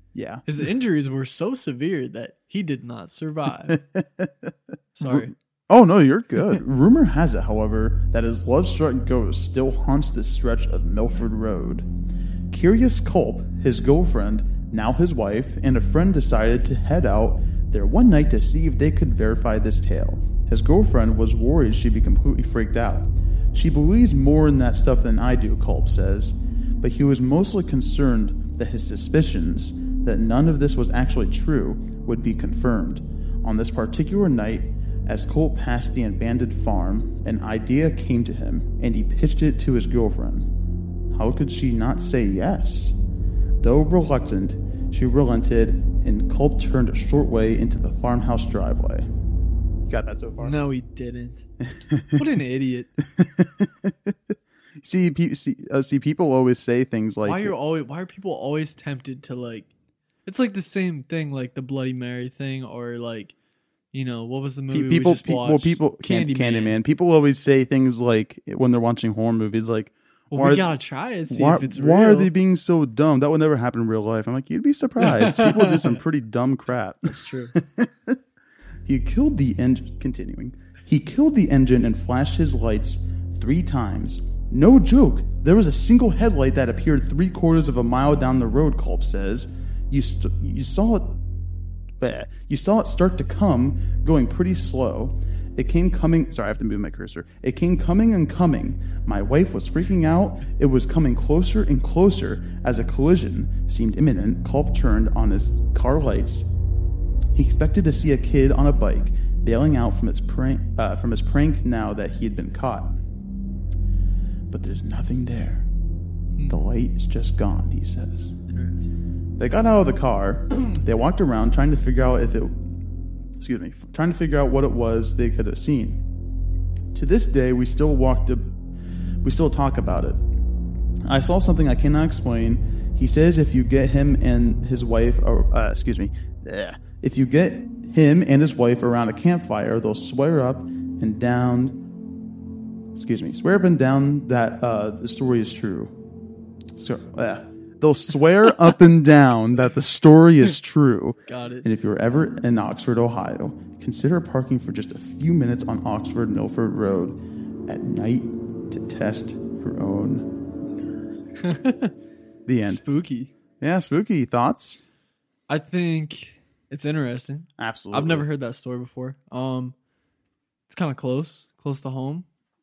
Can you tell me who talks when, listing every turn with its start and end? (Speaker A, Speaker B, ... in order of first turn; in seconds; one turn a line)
Speaker A: 0.1-0.5
Speaker B: 0.5-3.8
Speaker A: 3.7-11.9
Speaker B: 4.9-5.3
Speaker A: 12.5-40.5
Speaker A: 41.1-43.0
Speaker A: 43.6-49.1
Speaker A: 49.9-50.5
Speaker B: 50.4-51.5
Speaker A: 51.7-52.2
Speaker B: 52.1-52.9
Speaker A: 53.0-57.5
Speaker B: 57.2-59.7
Speaker B: 60.2-63.3
Speaker B: 63.9-66.8
Speaker A: 64.7-70.7
Speaker B: 70.3-72.3
Speaker A: 71.3-78.2
Speaker B: 75.0-76.0
Speaker B: 77.1-77.5
Speaker A: 78.8-91.2
Speaker A: 92.0-106.5
Speaker A: 107.3-112.9
Speaker A: 114.5-115.7
Speaker A: 116.5-118.4
Speaker B: 118.5-119.0
Speaker A: 119.4-122.6
Speaker A: 123.4-126.0
Speaker A: 126.9-128.5
Speaker A: 129.2-130.2
Speaker A: 131.0-141.8
Speaker A: 142.9-145.9
Speaker A: 146.7-160.9
Speaker B: 151.3-151.7
Speaker B: 161.4-161.9
Speaker A: 162.4-162.8
Speaker B: 162.6-163.3
Speaker A: 163.6-164.8
Speaker B: 165.5-169.7
Speaker A: 167.6-168.2
Speaker B: 170.7-172.2